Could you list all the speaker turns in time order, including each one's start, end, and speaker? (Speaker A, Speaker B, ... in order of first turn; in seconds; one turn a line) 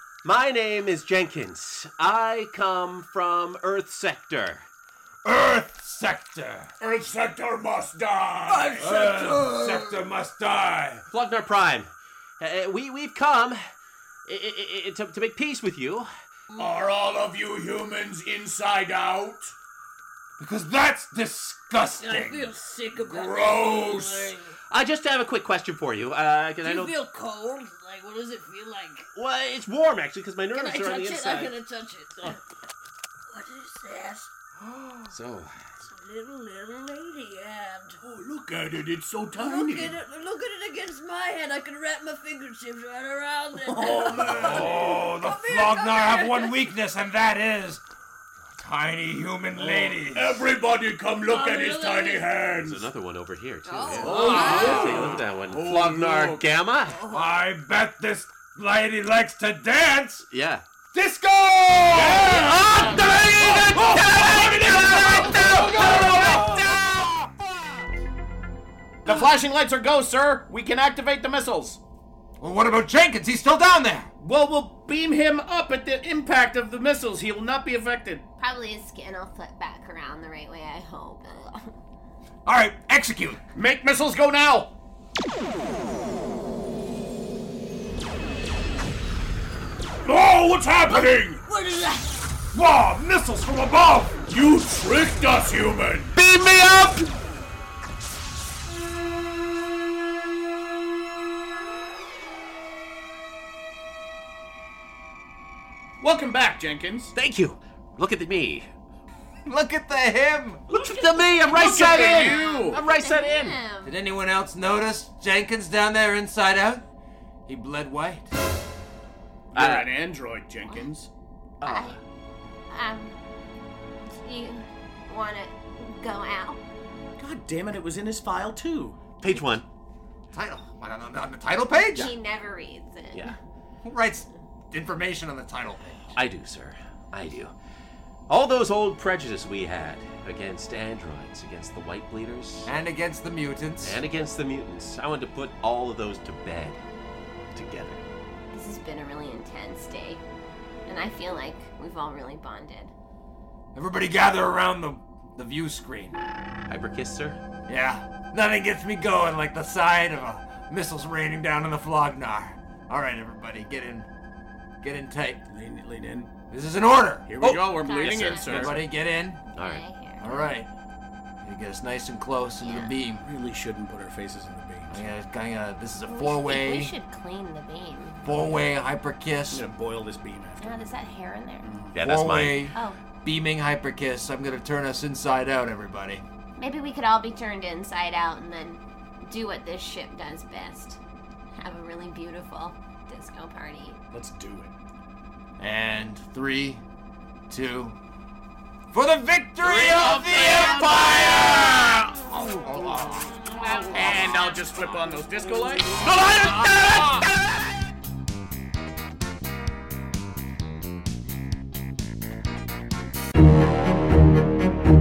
Speaker A: 0.2-4.7
Speaker B: 5.2-6.7
Speaker C: 6.8-9.2
Speaker D: 8.5-10.0
Speaker B: 8.8-11.1
Speaker A: 11.1-13.6
Speaker A: 14.3-16.1
Speaker C: 16.6-19.5
Speaker B: 20.4-22.6
Speaker D: 22.0-24.6
Speaker C: 23.0-24.4
Speaker A: 24.7-27.0
Speaker D: 26.6-29.1
Speaker A: 29.1-31.6
Speaker D: 30.5-32.4
Speaker D: 33.3-34.3
Speaker B: 34.6-35.1
Speaker A: 35.1-35.6
Speaker D: 35.9-38.0
Speaker E: 38.0-40.0
Speaker D: 39.3-46.7
Speaker E: 43.7-44.8
Speaker C: 44.0-45.0
Speaker B: 44.3-47.8
Speaker B: 48.5-50.5
Speaker C: 49.6-52.9
Speaker D: 51.2-52.4
Speaker A: 52.6-57.0
Speaker F: 53.7-54.9
Speaker E: 54.0-55.2
Speaker C: 54.0-56.4
Speaker B: 54.2-55.2
Speaker B: 57.1-60.3
Speaker A: 60.3-60.7
Speaker B: 60.9-67.8
Speaker A: 62.0-66.8
Speaker C: 62.1-65.8
Speaker E: 69.0-71.8
Speaker B: 72.4-74.1
Speaker E: 74.2-78.2
Speaker F: 78.4-81.7
Speaker B: 82.5-83.4
Speaker E: 83.5-84.7
Speaker C: 90.0-91.4
Speaker D: 90.9-92.2
Speaker B: 92.5-94.2
Speaker C: 94.3-96.2
Speaker A: 96.2-97.0
Speaker E: 106.0-107.1
Speaker A: 107.2-108.7
Speaker B: 109.5-110.7
Speaker A: 110.7-113.6
Speaker E: 111.4-112.8
Speaker F: 111.5-114.0
Speaker B: 113.8-116.8
Speaker B: 117.5-118.3
Speaker E: 119.5-121.1
Speaker A: 119.5-119.9
Speaker A: 121.6-122.0
Speaker F: 121.6-122.0
Speaker F: 122.7-123.2
Speaker F: 124.2-126.6
Speaker E: 127.2-129.1
Speaker A: 129.2-129.7
Speaker B: 130.3-132.1
Speaker F: 131.9-133.4
Speaker B: 133.8-136.1
Speaker A: 136.1-137.5
Speaker A: 138.3-142.7
Speaker B: 142.7-144.0
Speaker A: 143.8-146.8
Speaker A: 147.5-148.0
Speaker F: 148.5-150.2
Speaker F: 150.9-152.9
Speaker B: 153.8-156.2
Speaker A: 156.7-157.4
Speaker B: 157.7-164.1
Speaker B: 164.8-165.4
Speaker E: 165.5-166.3
Speaker B: 166.5-169.4
Speaker E: 167.2-168.9
Speaker F: 167.8-168.8
Speaker A: 167.9-168.8
Speaker A: 169.5-169.8
Speaker F: 169.5-170.6
Speaker B: 170.2-170.7
Speaker B: 171.4-173.2
Speaker F: 172.6-172.9
Speaker E: 173.2-175.1
Speaker B: 174.9-176.9
Speaker F: 176.1-178.2
Speaker B: 178.2-179.7
Speaker E: 179.5-180.9
Speaker F: 180.6-181.7
Speaker E: 181.6-182.0
Speaker A: 181.9-182.7
Speaker B: 182.0-186.2
Speaker F: 182.7-183.0
Speaker F: 186.6-191.0
Speaker F: 191.6-194.0
Speaker E: 194.1-194.8
Speaker B: 195.6-196.8
Speaker B: 197.5-198.0
Speaker B: 198.9-201.4
Speaker E: 199.6-202.1
Speaker A: 201.2-201.7
Speaker B: 202.2-203.5
Speaker F: 203.7-203.9
Speaker E: 203.7-206.1
Speaker B: 206.0-207.3